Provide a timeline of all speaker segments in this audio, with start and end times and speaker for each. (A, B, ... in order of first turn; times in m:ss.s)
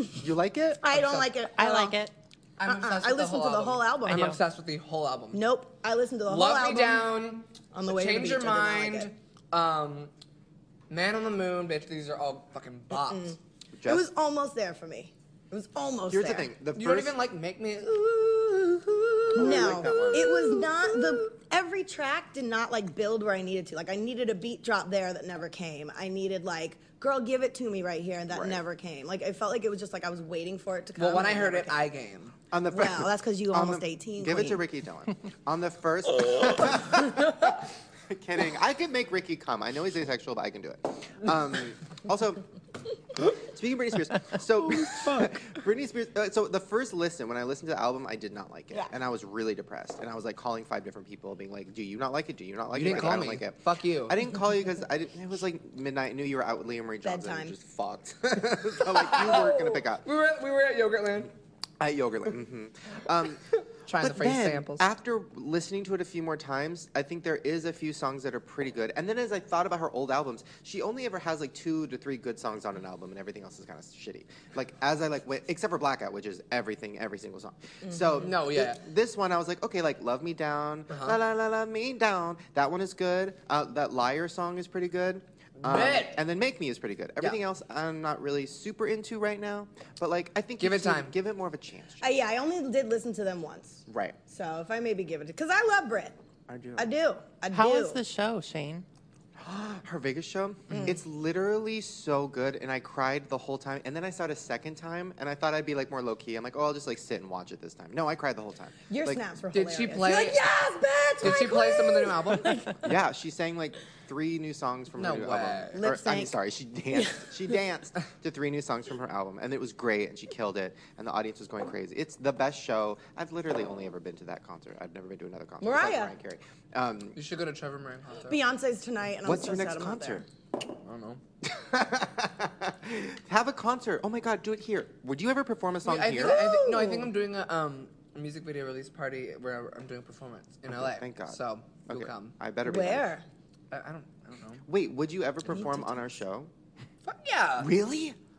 0:00.2-0:00.9 A
0:00.8-0:02.0 B
0:01.5-0:02.1 C
0:02.6-0:05.4 D
0:02.6-0:04.4 B
0:04.0-0:04.4 C
0:05.3-0:07.2 B
0:06.3-0:10.1 D
0:07.7-0:09.1 B
0:10.9-0:13.4 D
0:12.9-0:16.5 B
0:13.7-0:14.1 A
0:16.1-0:17.2 A
0:16.7-0:20.1 D
0:19.3-0:20.6 A
0:19.3-0:31.9 B
0:28.3-0:28.6 A
0:31.0-0:32.4 D
0:32.5-0:42.4 A
0:32.7-0:34.6 B
0:36.9-0:37.3 B
0:43.1-1:00.0 A
0:52.7-0:54.3 D
0:57.0-0:57.6 B
0:58.8-1:01.3 D
1:01.8-1:03.5 A
1:03.7-1:04.9 D
1:04.0-1:32.0 A
1:18.2-1:18.8 D
1:20.9-1:21.2 D
1:25.6-1:26.2 D
1:30.6-1:31.1 D
1:32.0-1:36.2 B
1:33.9-1:34.2 A
1:36.5-1:36.9 A
1:36.8-1:38.0 B
1:37.5-1:38.8 C
1:39.4-1:49.2 A
1:48.9-1:52.8 B
1:49.5-1:50.4 D
1:51.2-1:52.8 D
1:52.8-2:07.2 A
1:55.0-1:55.8 D
1:55.7-1:56.3 B
1:56.9-1:57.3 B
2:05.6-2:06.1 B
2:07.1-2:08.4 D
2:08.2-2:10.2 B
2:09.2-2:10.3 A
2:10.7-2:11.2 D
2:11.4-2:16.5 A
2:15.8-2:22.4 D
2:16.2-2:17.1 B
2:20.8-2:23.1 A
2:22.6-2:23.2 B
2:23.7-2:24.6 D
2:24.7-2:26.5 A
2:25.4-2:26.0 B
2:27.0-2:27.7 D
2:27.6-2:28.2 A